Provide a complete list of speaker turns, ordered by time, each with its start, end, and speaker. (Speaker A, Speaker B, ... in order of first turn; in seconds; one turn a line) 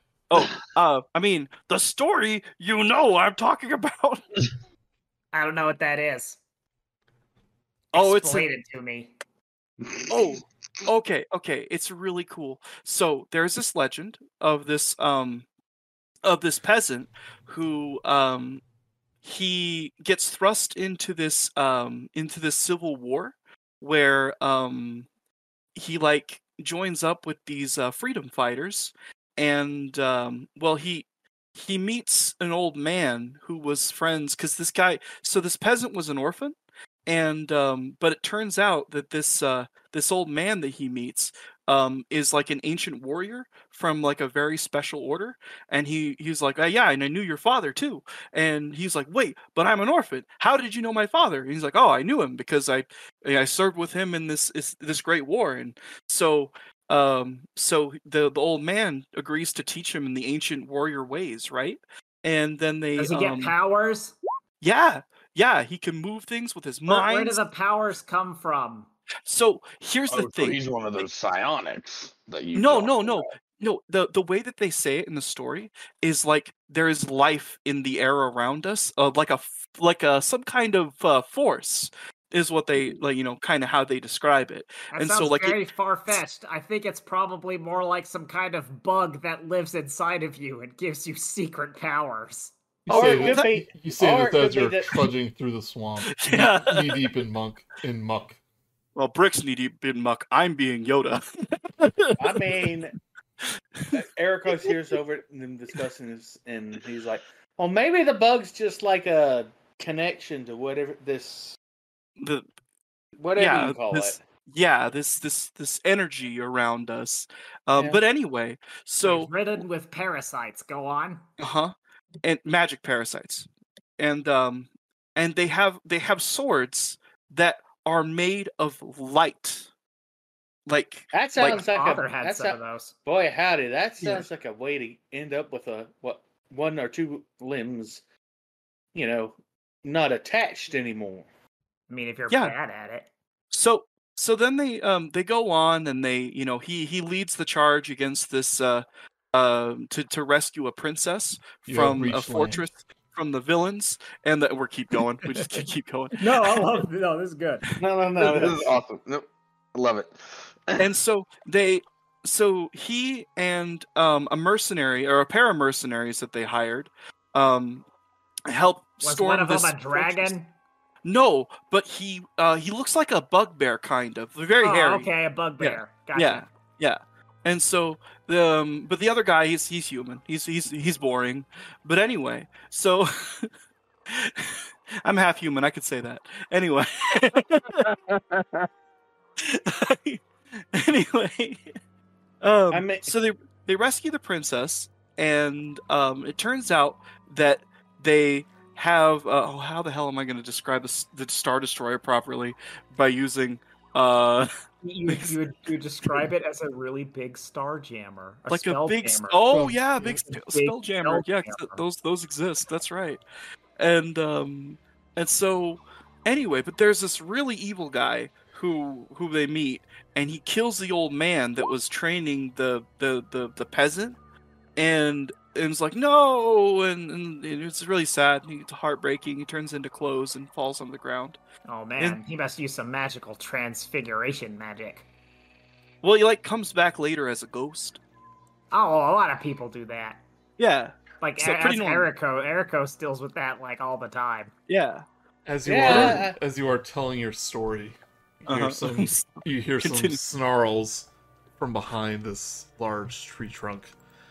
Speaker A: 0.3-4.4
Speaker B: 5.3-6.4
Speaker A: 7.9-8.4
Speaker B: 7.9-9.1
Speaker A: 10.1-15.4
Speaker A: 16.2-18.6
Speaker A: 19.2-25.1
Speaker A: 25.7-36.5
Speaker A: 37.1-63.5
Speaker B: 63.0-64.2
Speaker A: 64.6-67.4
Speaker B: 66.9-68.9
Speaker A: 69.3-70.6
Speaker C: 70.1-73.3
Speaker A: 72.5-86.2
Speaker B: 84.9-92.5
Speaker D: 92.8-98.4
Speaker A: 92.9-93.5
Speaker E: 92.9-95.0
Speaker A: 96.1-97.1
Speaker A: 99.0-102.7
Speaker E: 102.2-102.9
Speaker A: 103.4-104.0
Speaker E: 103.9-111.6
Speaker A: 112.2-112.4
Speaker E: 113.2-114.2
Speaker A: 113.3-119.6
Speaker B: 119.0-121.2
Speaker A: 121.4-121.7
Speaker A: 122.2-123.5
Speaker A: 124.0-129.7
Speaker A: 130.7-131.6
Speaker E: 131.1-138.0
Speaker B: 131.4-132.9
Speaker E: 138.9-141.3
Speaker B: 141.9-143.1
Speaker A: 143.5-156.7
Speaker D: 151.7-152.6
Speaker B: 155.4-155.6
Speaker B: 156.1-157.7
Speaker E: 157.8-158.8
Speaker C: 158.2-160.9
Speaker A: 160.8-167.8
Speaker A: 168.5-170.3
Speaker B: 169.0-170.5
Speaker A: 171.0-183.5
Speaker B: 174.6-176.4
Speaker A: 184.1-187.9
Speaker C: 187.8-188.7
Speaker A: 189.4-191.7
Speaker A: 192.4-204.5
Speaker E: 192.7-193.1
Speaker B: 204.8-209.5
Speaker A: 205.1-205.3
Speaker A: 208.5-213.2
Speaker D: 209.5-210.2
Speaker B: 210.1-211.8
Speaker A: 213.8-224.2
Speaker A: 224.8-231.4
Speaker B: 231.7-235.1
Speaker A: 236.0-238.0
Speaker B: 238.7-240.2
Speaker A: 240.6-242.1
Speaker B: 241.2-244.5
Speaker A: 244.7-245.0
Speaker D: 245.4-253.9
Speaker E: 245.6-246.4
Speaker A: 245.8-246.2
Speaker A: 248.5-250.2